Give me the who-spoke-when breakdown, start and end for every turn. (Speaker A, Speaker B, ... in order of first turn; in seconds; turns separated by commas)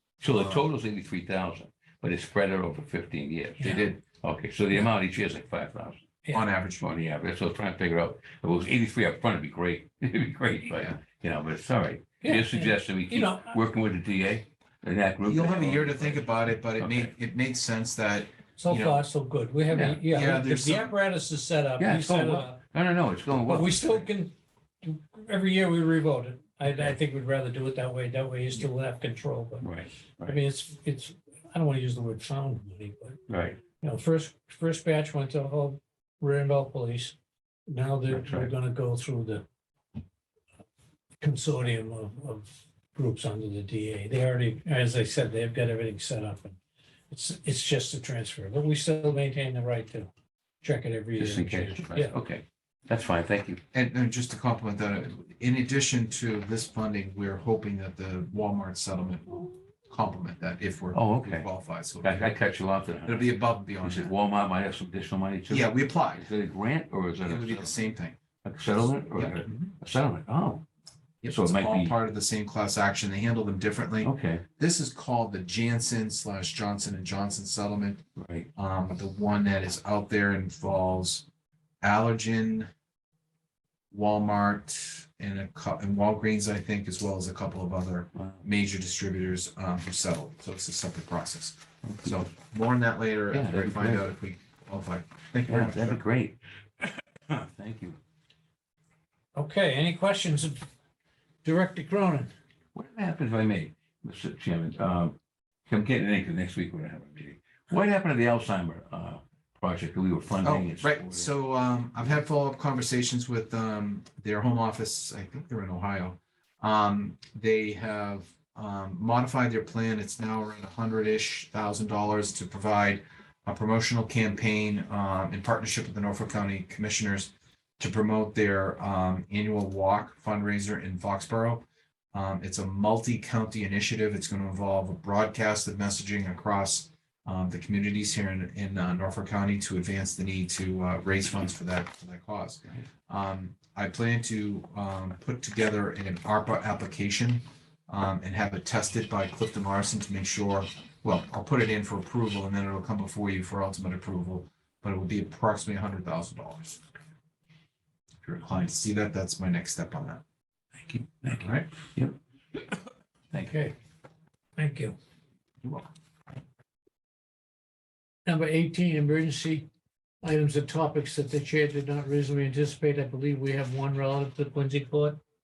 Speaker A: 0.2-6.1, Speaker B: 0.3-0.7, Speaker B: 3.6-4.0, Speaker B: 6.3-6.8, Speaker A: 6.8-17.1, Speaker C: 12.2-13.6, Speaker B: 15.2-19.0, Speaker C: 18.6-22.6, Speaker A: 19.7-20.0, Speaker B: 20.1-20.9, Speaker A: 21.8-24.0, Speaker C: 23.4-29.7, Speaker A: 29.6-30.4, Speaker C: 30.2-33.2, Speaker A: 33.3-33.6, Speaker C: 33.8-37.1, Speaker C: 37.7-39.4, Speaker A: 38.1-38.5, Speaker C: 41.2-46.6, Speaker C: 47.1-50.1, Speaker C: 50.6-52.1, Speaker A: 51.2-53.6, Speaker B: 53.7-62.4, Speaker A: 60.9-61.5, Speaker A: 62.0-67.8, Speaker B: 63.0-64.1, Speaker B: 65.5-66.3, Speaker B: 67.2-68.2, Speaker A: 68.4-70.6, Speaker B: 69.1-69.7, Speaker B: 71.2-78.0, Speaker A: 71.3-71.9, Speaker A: 74.0-74.4, Speaker A: 78.2-78.5, Speaker B: 78.5-81.2, Speaker B: 81.8-82.7, Speaker B: 83.9-96.0, Speaker A: 88.1-88.4, Speaker A: 91.8-92.2, Speaker A: 93.3-94.0, Speaker A: 95.5-98.0, Speaker C: 99.3-100.6, Speaker C: 101.4-102.3, Speaker A: 102.7-105.2, Speaker A: 105.7-111.3, Speaker B: 110.4-156.8, Speaker B: 158.2-160.2, Speaker A: 160.9-162.2, Speaker B: 161.3-161.7, Speaker A: 163.3-163.6, Speaker C: 163.4-163.7, Speaker C: 164.6-164.9, Speaker B: 165.6-165.9, Speaker C: 168.2-169.7, Speaker C: 170.2-175.2